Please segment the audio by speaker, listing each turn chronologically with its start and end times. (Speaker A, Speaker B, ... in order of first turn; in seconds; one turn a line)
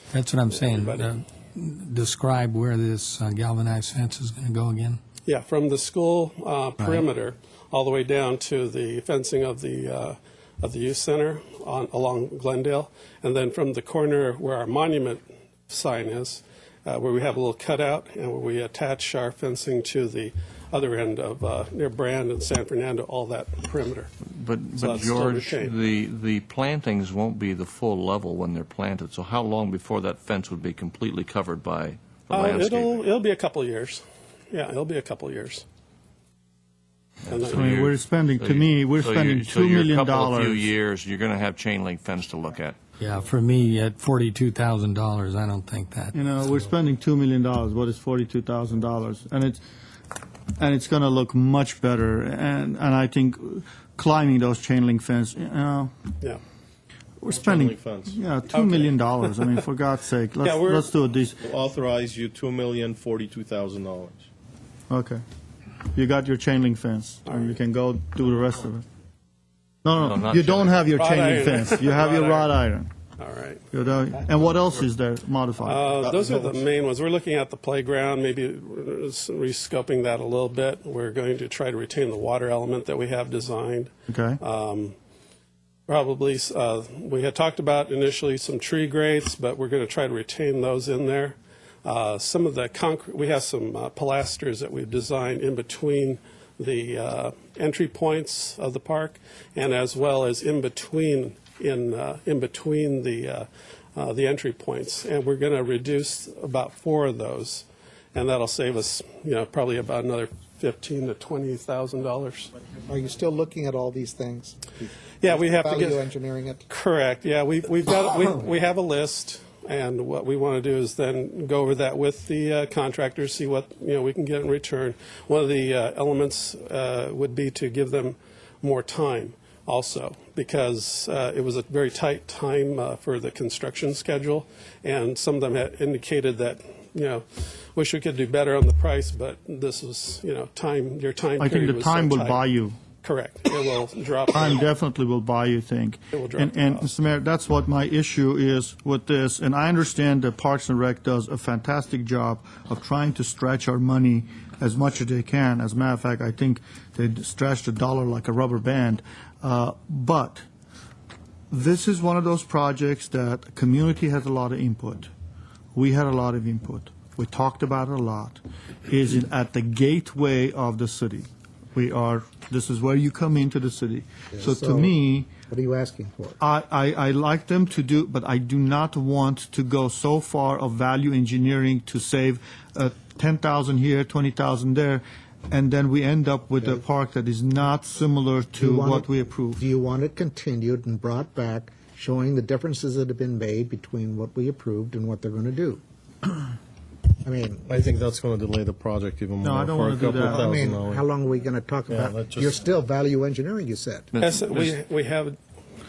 Speaker A: 0.1-5.0
Speaker B: 0.5-1.1
Speaker B: 5.2-24.1
Speaker A: 6.8-7.0
Speaker C: 24.3-33.0
Speaker B: 24.8-25.7
Speaker B: 32.3-35.6
Speaker C: 37.2-42.8
Speaker B: 37.3-37.7
Speaker D: 37.5-40.7
Speaker A: 43.0-46.1
Speaker D: 46.1-49.6
Speaker D: 50.6-55.9
Speaker D: 57.2-61.4
Speaker E: 57.2-58.2
Speaker B: 58.5-59.6
Speaker B: 60.4-60.9
Speaker E: 61.4-64.3
Speaker D: 64.9-65.2
Speaker D: 65.9-68.8
Speaker B: 67.3-67.5
Speaker D: 69.8-72.9
Speaker C: 70.0-70.8
Speaker B: 70.9-72.5
Speaker B: 73.2-73.6
Speaker D: 73.7-75.8
Speaker B: 75.6-85.0
Speaker E: 76.0-76.6
Speaker D: 84.1-84.4
Speaker B: 85.9-112.5
Speaker F: 112.9-116.6
Speaker B: 115.2-116.1
Speaker B: 116.7-142.4
Speaker D: 141.4-142.8
Speaker B: 143.0-144.6
Speaker D: 144.3-160.4
Speaker B: 146.1-146.9
Speaker D: 161.5-165.1
Speaker D: 165.7-175.3
Speaker F: 174.3-174.9
Speaker F: 175.5-176.4
Speaker D: 176.4-189.6
Speaker F: 188.6-195.8
Speaker F: 197.2-197.6
Speaker E: 197.6-201.1
Speaker D: 199.4-200.5
Speaker F: 200.2-204.1
Speaker E: 201.9-202.6
Speaker C: 204.1-204.8
Speaker B: 204.2-205.4